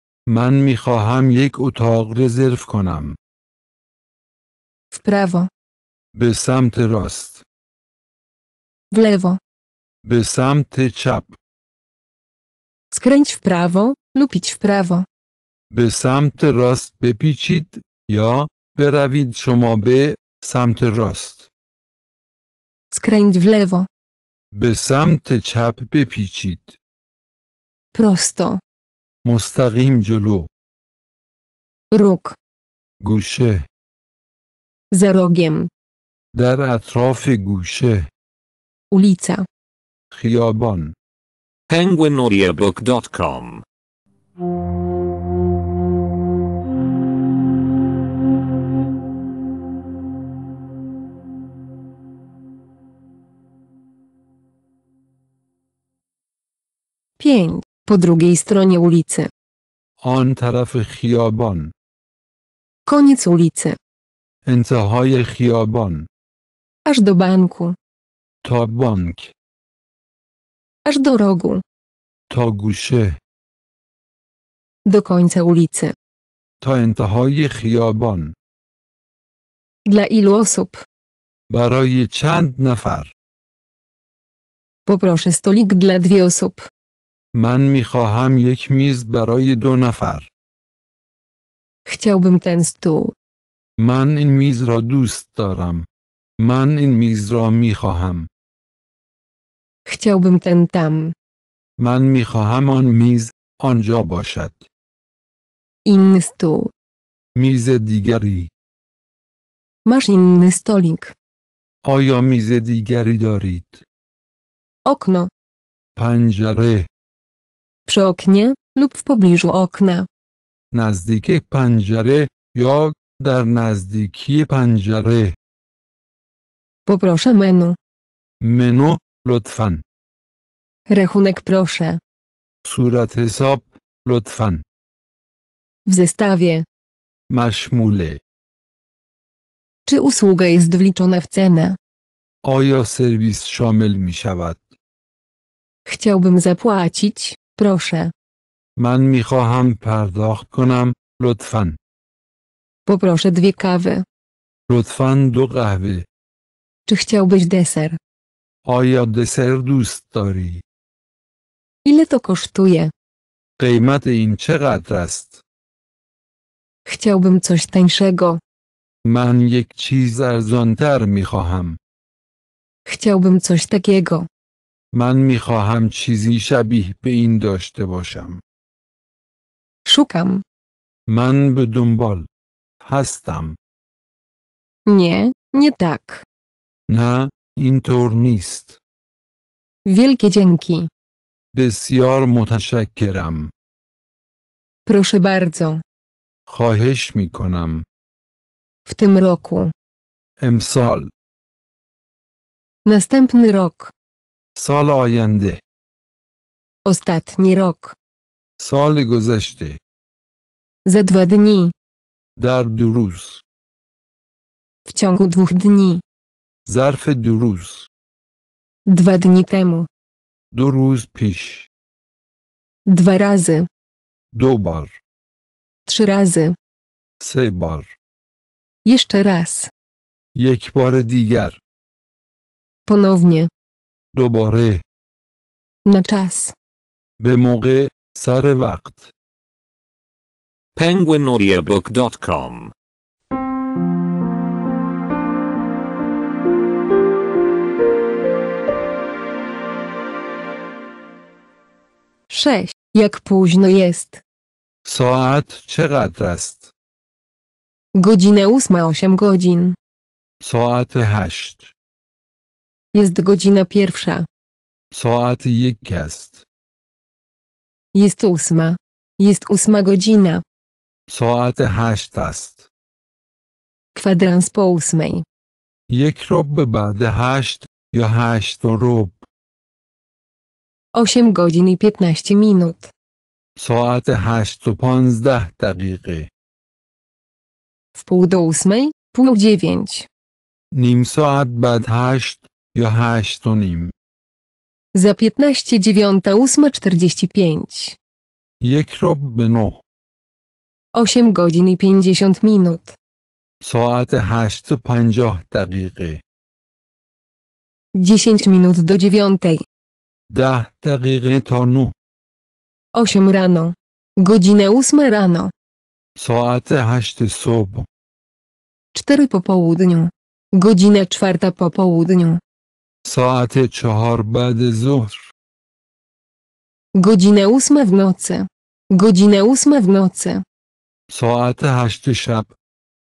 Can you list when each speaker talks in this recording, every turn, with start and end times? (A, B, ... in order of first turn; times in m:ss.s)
0:00.3-0:03.2 A
0:04.9-0:05.5 B
0:06.1-0:07.4 A
0:08.9-0:09.4 B
0:10.0-0:11.4 A
0:12.9-0:15.0 B
0:15.7-0:21.5 A
0:22.9-0:23.9 B
0:24.5-0:26.8 A
0:27.9-0:28.6 B
0:29.2-0:30.5 A
0:31.9-0:32.4 B
0:33.0-0:33.7 A
0:34.9-0:35.7 B
0:36.3-0:38.1 A
0:38.9-0:39.4 B
0:40.1-0:40.9 A
0:41.7-0:43.6 C
0:57.2-0:59.3 B
1:00.0-1:01.7 A
1:02.9-1:03.8 B
1:04.4-1:06.1 A
1:06.8-1:07.8 B
1:08.4-1:09.3 A
1:10.8-1:11.6 B
1:12.3-1:13.2 A
1:14.8-1:15.9 B
1:16.6-1:18.3 A
1:19.8-1:20.8 B
1:21.5-1:23.1 A
1:24.9-1:26.6 B
1:27.3-1:30.3 A
1:31.9-1:33.1 B
1:33.8-1:35.8 A
1:36.4-1:38.3 A
1:39.8-1:41.1 B
1:41.8-1:44.6 A
1:45.8-1:46.7 B
1:47.3-1:48.5 A
1:49.8-1:51.1 B
1:51.8-1:53.8 A
1:54.8-1:55.3 B
1:56.0-1:56.9 A
1:57.9-2:00.1 B
2:00.7-2:05.4 A
2:06.8-2:07.8 B
2:08.4-2:09.8 A
2:10.9-2:12.0 B
2:12.6-2:14.6 A
2:15.8-2:16.6 B
2:17.3-2:18.2 A
2:19.9-2:21.8 B
2:22.4-2:24.7 A
2:25.9-2:28.1 B
2:28.8-2:31.8 A
2:32.8-2:34.0 B
2:34.7-2:36.0 A
2:36.9-2:38.0 B
2:38.6-2:40.6 A
2:41.8-2:42.9 B
2:43.6-2:45.4 A
2:46.8-2:48.4 B
2:49.0-2:51.8 A
2:52.9-2:54.3 B
2:54.9-2:58.4 A
2:59.8-3:00.4 B
3:01.1-3:02.3 A
3:02.8-3:03.6 A
3:04.9-3:06.2 B
3:06.9-3:08.8 A
3:09.8-3:10.9 B
3:11.5-3:13.5 A
3:14.8-3:15.8 B
3:16.5-3:17.8 A
3:18.8-3:19.7 B
3:20.4-3:21.1 A
3:22.8-3:23.9 B
3:24.6-3:25.6 A
3:26.8-3:28.0 B
3:28.6-3:29.8 A
3:30.8-3:31.7 B
3:32.4-3:33.4 A
3:34.9-3:36.0 B
3:36.6-3:37.9 A
3:38.9-3:39.9 B
3:40.5-3:41.7 A
3:42.9-3:43.7 B
3:44.3-3:45.0 A
3:45.9-3:46.5 B
3:47.2-3:48.0 A
3:48.8-3:49.7 B
3:50.3-3:51.6 A
3:52.9-3:53.5 B
3:54.1-3:54.8 A
3:55.8-3:56.5 B
3:57.2-3:59.1 A
4:00.7-4:02.7 C
4:12.3-4:14.2 B
4:14.8-4:16.7 A
4:17.9-4:19.8 B
4:20.4-4:21.7 A
4:22.9-4:24.3 B
4:24.9-4:26.4 A
4:27.9-4:30.4 B
4:31.1-4:32.7 A
4:33.9-4:35.2 B
4:35.9-4:39.2 A
4:40.9-4:42.9 B
4:43.6-4:46.3 A
4:47.9-4:50.1 B
4:50.7-4:53.9 A
4:54.9-4:58.0 B
4:58.6-4:59.8 A
5:00.9-5:03.0 B
5:03.6-5:06.2 A
5:07.9-5:09.6 B
5:10.3-5:11.9 A
5:12.9-5:15.5 B
5:16.2-5:17.9 A
5:18.9-5:22.4 B
5:23.0-5:25.3 A
5:26.9-5:30.4 B
5:31.1-5:32.5 A